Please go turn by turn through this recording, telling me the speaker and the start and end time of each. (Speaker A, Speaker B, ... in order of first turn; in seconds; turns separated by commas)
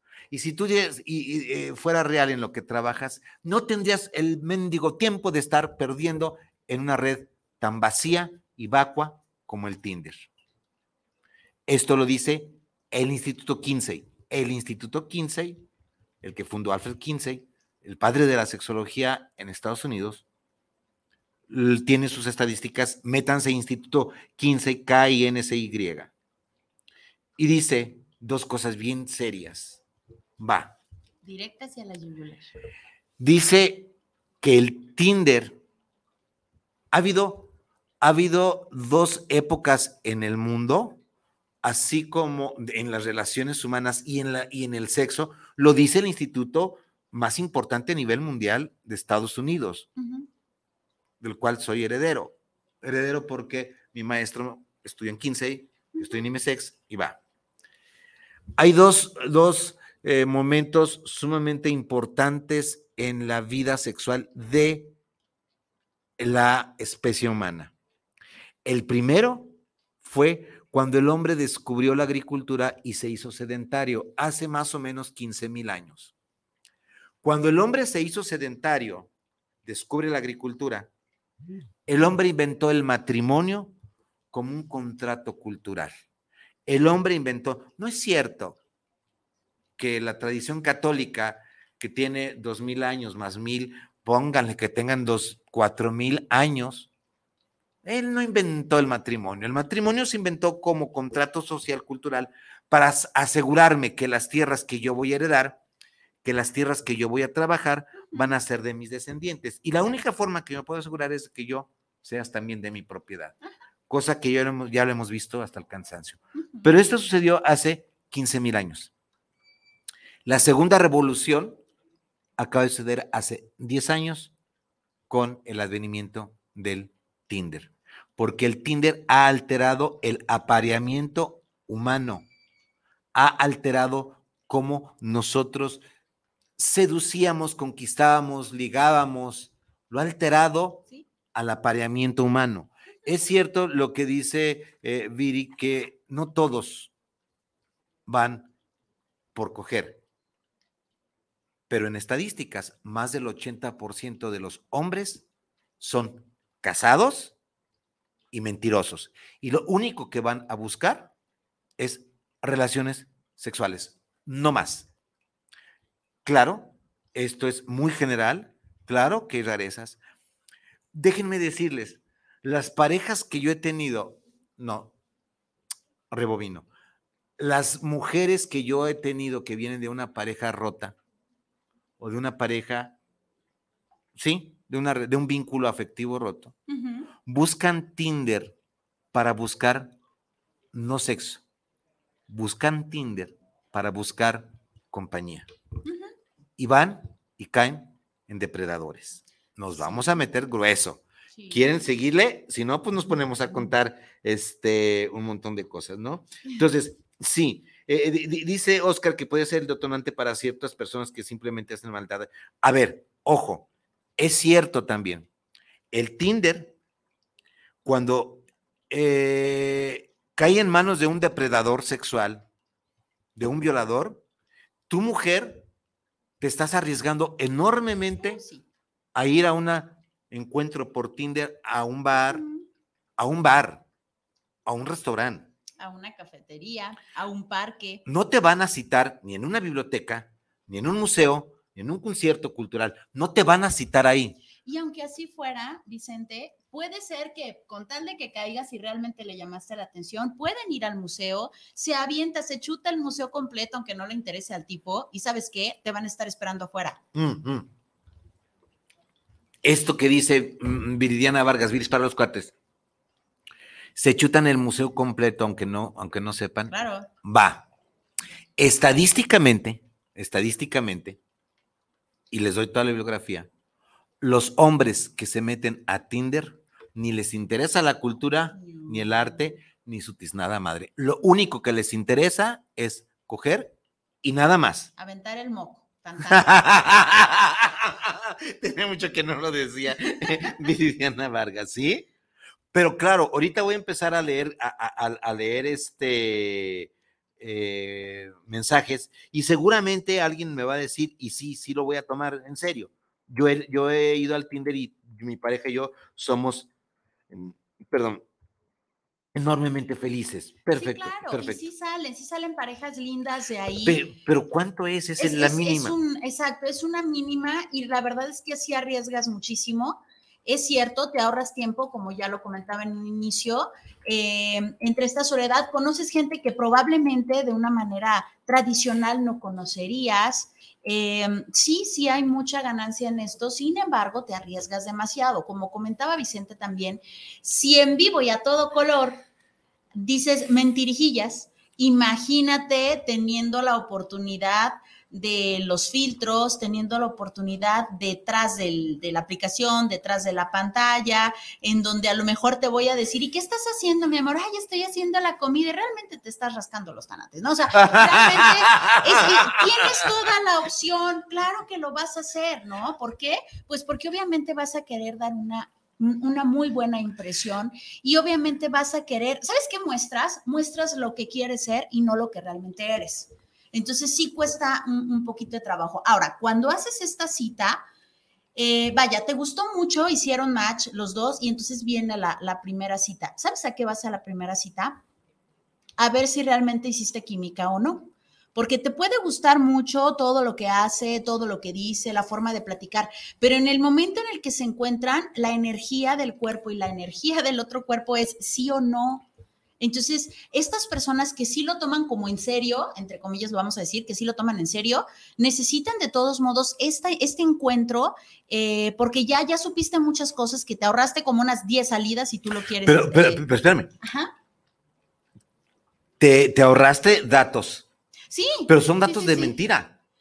Speaker A: 0.3-10.3, Speaker A: 11.7-15.6, Speaker A: 16.2-20.2, Speaker A: 21.5-26.1, Speaker A: 27.4-29.8, Speaker A: 30.4-30.8, Speaker B: 31.2-32.5, Speaker A: 33.2-35.6, Speaker A: 36.9-41.0, Speaker A: 41.6-49.9, Speaker B: 50.0-50.3, Speaker A: 51.2-57.2, Speaker A: 58.6-64.9, Speaker A: 66.2-67.7, Speaker A: 68.6-76.1, Speaker A: 77.2-79.1, Speaker A: 79.6-80.9, Speaker A: 81.9-83.7, Speaker A: 84.3-85.9, Speaker A: 86.7-88.6, Speaker A: 89.8-96.9, Speaker A: 97.8-105.6, Speaker A: 106.2-113.3, Speaker A: 113.9-118.9, Speaker A: 120.2-121.6, Speaker A: 122.4-124.3, Speaker A: 125.1-132.2, Speaker A: 133.1-135.8, Speaker A: 136.6-146.9, Speaker A: 148.1-148.5, Speaker A: 149.3-150.0, Speaker A: 151.7-155.2, Speaker A: 155.8-157.3, Speaker A: 158.3-161.1, Speaker A: 161.8-164.9, Speaker A: 166.2-170.0, Speaker A: 170.9-174.9, Speaker A: 176.1-176.7, Speaker A: 177.4-180.9, Speaker A: 182.0-182.9, Speaker A: 184.1-186.5, Speaker B: 186.7-187.1, Speaker A: 187.2-188.5, Speaker A: 189.1-189.9, Speaker A: 190.7-191.4, Speaker A: 192.3-195.5, Speaker B: 195.8-196.1, Speaker A: 196.6-215.3, Speaker B: 199.8-200.1, Speaker B: 201.3-201.7, Speaker A: 215.9-216.7, Speaker A: 217.8-222.4, Speaker A: 223.3-224.2, Speaker A: 224.9-225.7, Speaker A: 226.4-228.4, Speaker B: 228.2-228.6, Speaker A: 229.1-232.4, Speaker B: 232.1-232.6, Speaker A: 233.2-233.8, Speaker A: 234.6-235.5, Speaker B: 235.8-238.0, Speaker A: 238.1-244.4, Speaker B: 244.6-257.0, Speaker A: 257.1-257.7, Speaker A: 259.6-262.5, Speaker A: 263.9-266.7, Speaker B: 266.7-267.1, Speaker A: 267.2-267.6, Speaker A: 268.6-271.2, Speaker A: 272.3-273.5, Speaker A: 274.2-284.9, Speaker B: 278.5-279.6, Speaker B: 285.0-286.7, Speaker A: 286.3-292.1, Speaker A: 292.7-306.7, Speaker A: 307.3-308.2, Speaker A: 309.3-311.6, Speaker B: 310.7-314.0, Speaker A: 313.8-315.9, Speaker B: 315.2-339.2, Speaker B: 339.9-377.8, Speaker A: 357.7-360.1, Speaker B: 378.6-385.0, Speaker B: 386.0-399.2, Speaker B: 399.8-413.4, Speaker A: 412.8-413.9, Speaker B: 414.0-414.3, Speaker A: 416.2-417.9, Speaker B: 418.3-419.6, Speaker A: 418.7-419.9